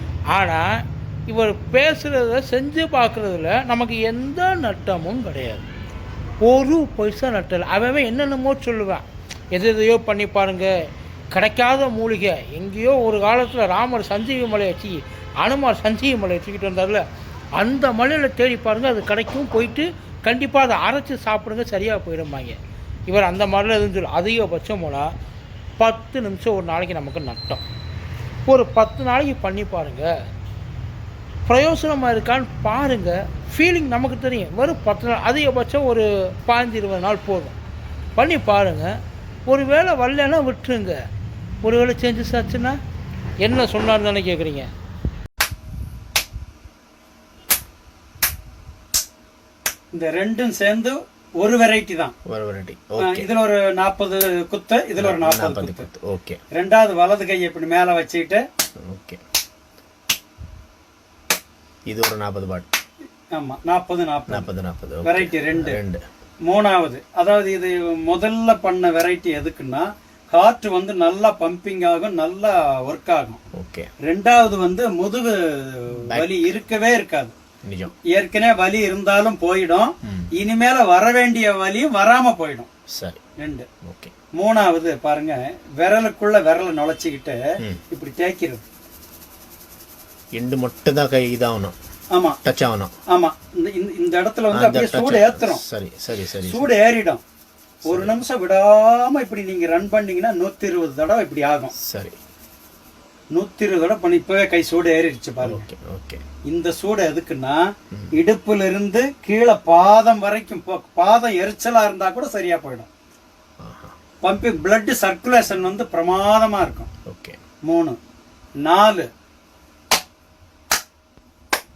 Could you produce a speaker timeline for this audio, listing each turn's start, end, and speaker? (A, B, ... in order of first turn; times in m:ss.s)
0:00.3-0:00.6 A
0:01.3-0:05.7 A
0:06.4-0:10.7 A
0:11.3-0:17.0 A
0:17.6-0:25.1 A
0:25.8-0:27.6 A
0:28.4-0:30.1 A
0:31.5-0:37.5 A
0:38.2-0:38.9 A
0:39.5-0:41.0 A
0:41.6-0:42.8 A
0:43.4-0:44.7 A
0:49.9-0:52.1 B
0:52.2-0:53.3 C
0:53.0-0:55.9 B
0:55.0-0:56.4 C
0:56.5-0:58.4 B
0:58.8-0:59.2 C
1:01.9-1:02.7 C
1:03.3-1:04.5 B
1:04.3-1:06.0 C
1:05.0-1:05.8 B
1:06.4-1:13.4 B
1:13.5-1:13.9 C
1:14.0-1:17.3 B
1:16.1-1:16.6 C
1:17.6-1:17.9 C
1:18.1-1:22.7 B
1:23.4-1:23.6 B
1:23.8-1:24.1 C
1:24.3-1:27.4 B
1:27.9-1:28.6 B
1:30.3-1:31.8 C
1:32.1-1:32.4 B
1:32.4-1:32.9 C
1:33.1-1:35.6 B
1:34.5-1:36.7 C
1:36.4-1:37.2 B
1:37.8-1:41.7 B
1:37.8-1:38.1 C
1:41.8-1:42.2 C
1:43.3-1:45.7 B
1:45.4-1:46.2 C
1:46.5-1:52.9 B
1:53.6-1:54.0 C
1:54.2-1:56.9 B
1:57.0-1:57.4 C
1:57.6-1:58.0 B
1:58.6-1:59.1 B